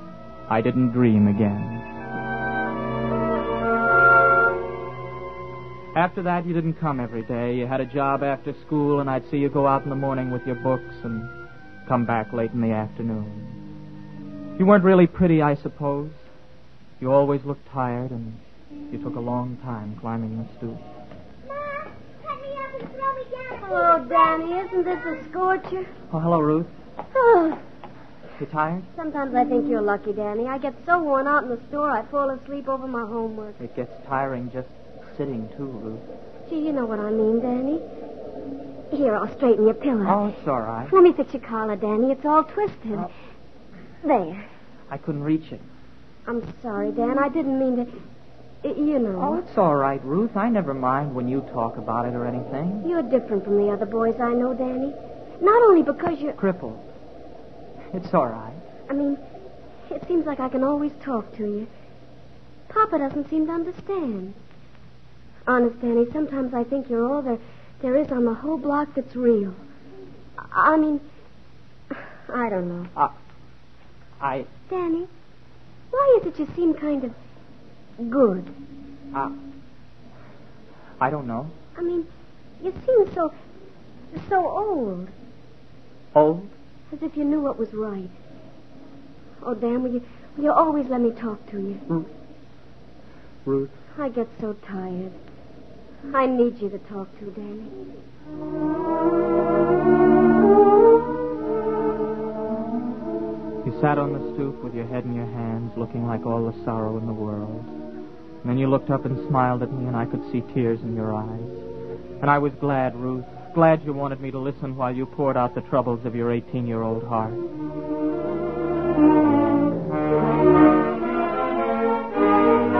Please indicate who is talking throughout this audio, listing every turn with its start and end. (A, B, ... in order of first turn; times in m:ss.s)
0:00.5-0:01.8 A
0:05.9-0:11.3 A
0:11.8-0:13.6 A
0:14.6-0:16.2 A
0:17.0-0:20.8 A
0:21.4-0:25.9 B
0:26.1-0:26.7 A
0:27.1-0:27.6 B
0:28.4-0:28.9 A
0:28.9-0:33.6 B
0:33.6-0:36.0 A
0:36.5-0:37.8 B
0:38.9-0:40.2 B
0:40.0-0:40.9 A
0:40.9-0:43.1 B
0:44.0-0:44.5 B
0:44.9-0:45.7 A
0:46.2-0:48.0 B
0:48.6-0:49.4 B
0:49.2-0:52.9 A
0:52.8-0:56.4 B
0:56.4-0:56.8 A
0:57.9-0:58.6 A
0:58.9-0:59.2 B
0:59.9-1:01.7 B
1:02.7-1:04.4 B
1:05.5-1:09.6 B
1:10.4-1:11.0 B
1:11.9-1:12.9 B
1:14.2-1:14.5 A
1:14.7-1:15.1 B
1:15.9-1:17.1 B
1:18.0-1:18.5 B
1:21.0-1:21.5 A
1:21.8-1:22.1 B
1:22.6-1:23.3 B
1:24.1-1:25.1 B
1:26.1-1:26.5 A
1:26.9-1:28.1 B
1:29.4-1:31.8 B
1:33.4-1:33.7 A
1:33.9-1:35.2 B
1:36.1-1:37.7 B
1:43.6-1:47.7 A
1:48.4-1:51.6 A
1:52.2-1:57.4 A